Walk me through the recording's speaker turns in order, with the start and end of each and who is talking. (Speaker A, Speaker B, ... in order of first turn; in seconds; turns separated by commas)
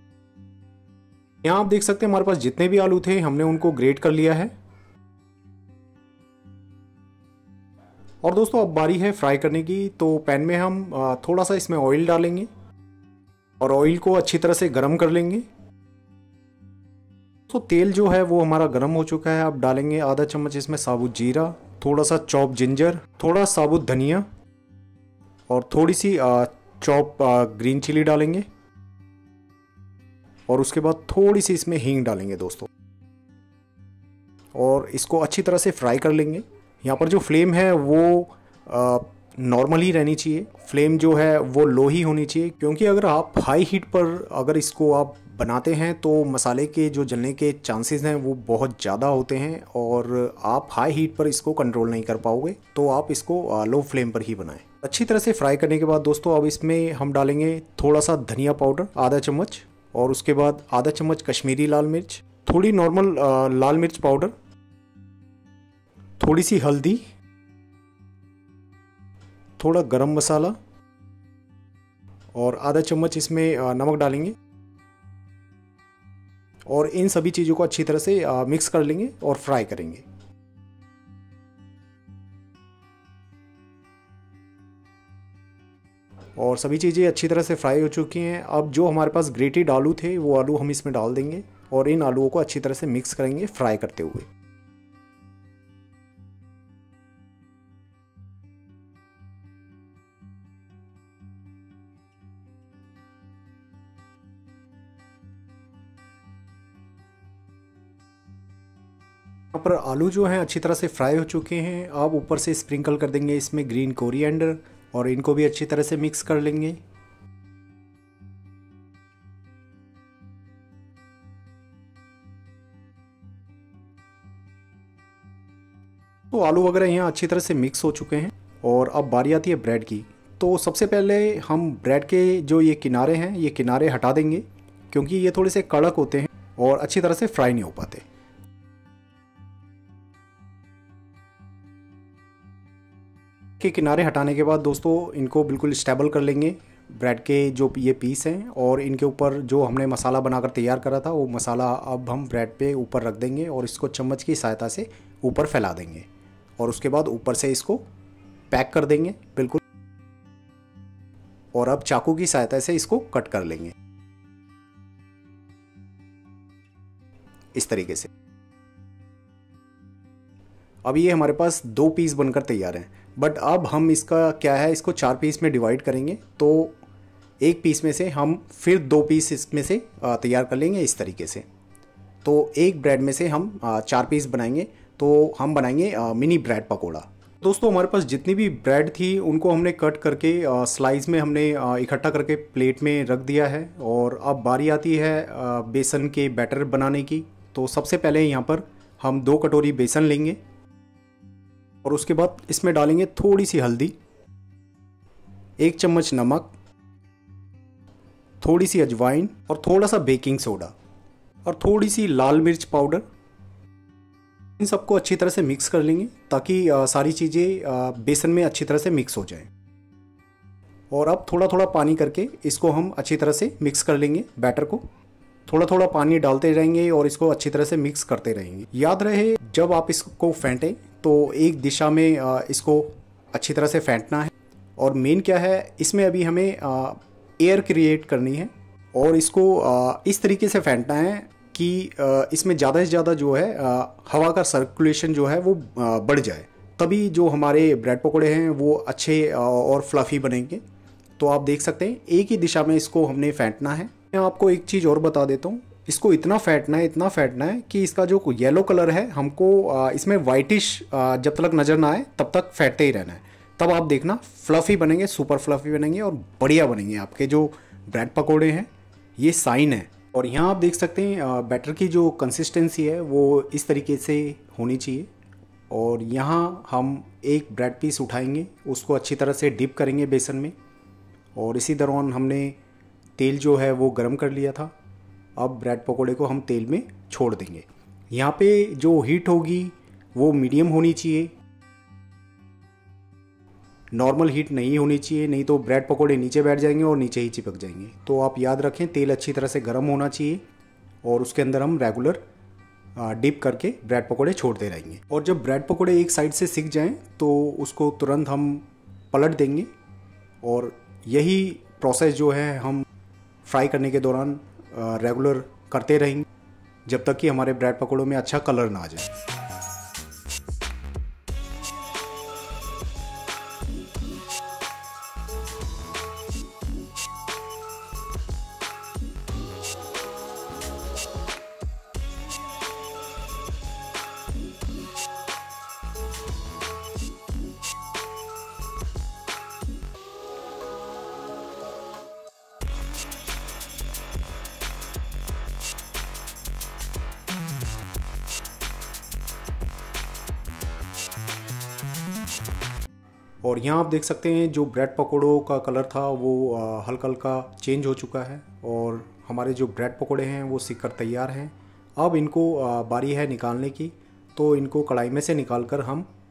Speaker A: 1.4-4.5, Speaker A: 8.2-12.5, Speaker A: 13.6-15.4, Speaker A: 17.5-24.3, Speaker A: 25.5-28.4, Speaker A: 30.5-32.7, Speaker A: 34.5-64.3, Speaker A: 66.2-67.0, Speaker A: 69.6-70.6, Speaker A: 72.3-74.4, Speaker A: 76.7-80.0, Speaker A: 86.4-94.3, Speaker A: 109.5-116.8, Speaker A: 126.3-138.0, Speaker A: 143.6-156.1, Speaker A: 156.6-157.8, Speaker A: 158.5-159.6, Speaker A: 161.5-163.7, Speaker A: 167.5-168.1, Speaker A: 170.8-176.8, Speaker A: 177.4-181.5, Speaker A: 182.2-200.4, Speaker A: 201.8-204.0, Speaker A: 205.6-206.5, Speaker A: 208.4-210.7, Speaker A: 211.4-213.0, Speaker A: 214.6-219.5, Speaker A: 220.9-224.8, Speaker A: 225.5-250.6, Speaker A: 251.2-275.1, Speaker A: 275.7-280.5, Speaker A: 281.4-282.6, Speaker A: 283.2-284.7, Speaker A: 285.4-291.3, Speaker A: 293.9-300.4, Speaker A: 301.0-302.2, Speaker A: 303.0-309.7, Speaker A: 310.4-312.9, Speaker A: 313.4-316.3, Speaker A: 316.9-319.1, Speaker A: 353.4-366.1